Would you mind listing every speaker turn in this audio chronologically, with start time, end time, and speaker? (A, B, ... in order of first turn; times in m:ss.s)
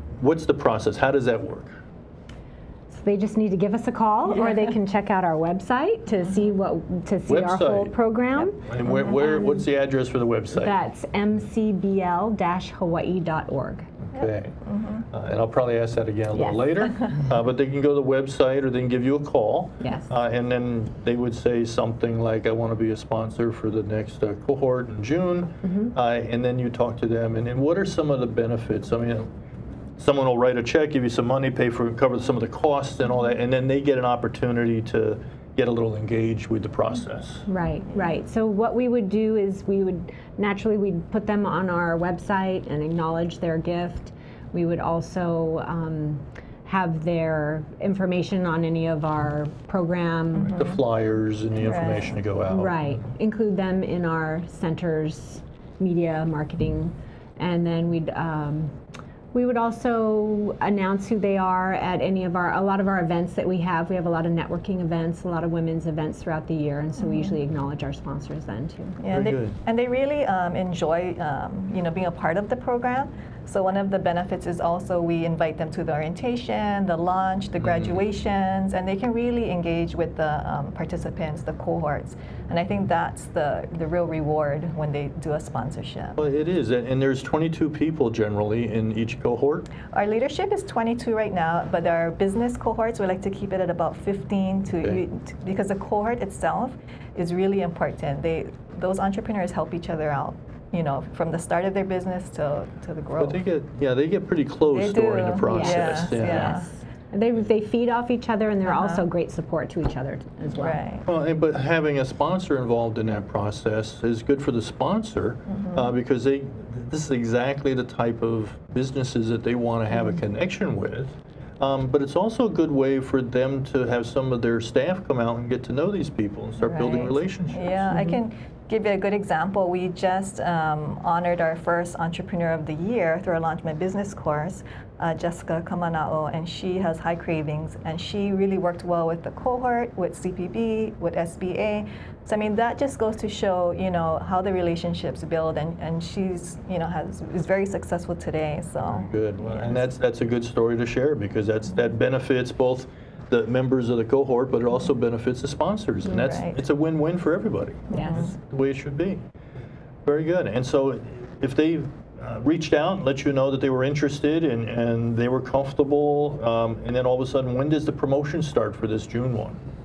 0:00.2-0:01.8 A
0:02.9-0:09.6 B
0:07.2-0:10.8 A
0:10.5-0:13.9 B
0:14.0-0:14.5 A
0:14.1-0:15.0 C
0:15.1-0:29.3 A
0:16.3-0:16.6 B
0:19.8-0:20.1 B
0:25.6-0:25.9 B
0:30.0-0:37.4 A
0:37.5-0:50.5 B
0:50.4-0:50.8 C
0:50.4-0:53.0 A
0:51.6-0:52.1 C
0:52.5-0:58.7 B
0:59.3-1:08.9 B
1:07.0-1:07.3 C
1:09.0-1:26.2 C
1:09.1-1:09.6 A
1:17.6-1:18.0 A
1:26.2-1:29.7 A
1:29.9-1:43.4 C
1:43.2-1:46.6 A
1:44.7-1:46.7 C
1:45.5-1:50.8 B
1:48.6-1:49.0 C
1:50.6-1:51.0 C
1:51.1-2:07.9 A
1:55.5-1:55.9 C
2:06.6-2:29.9 C
2:07.9-2:08.2 B
2:28.8-2:39.2 A
2:36.1-2:36.6 C
2:37.9-2:38.3 C
2:40.0-2:49.6 A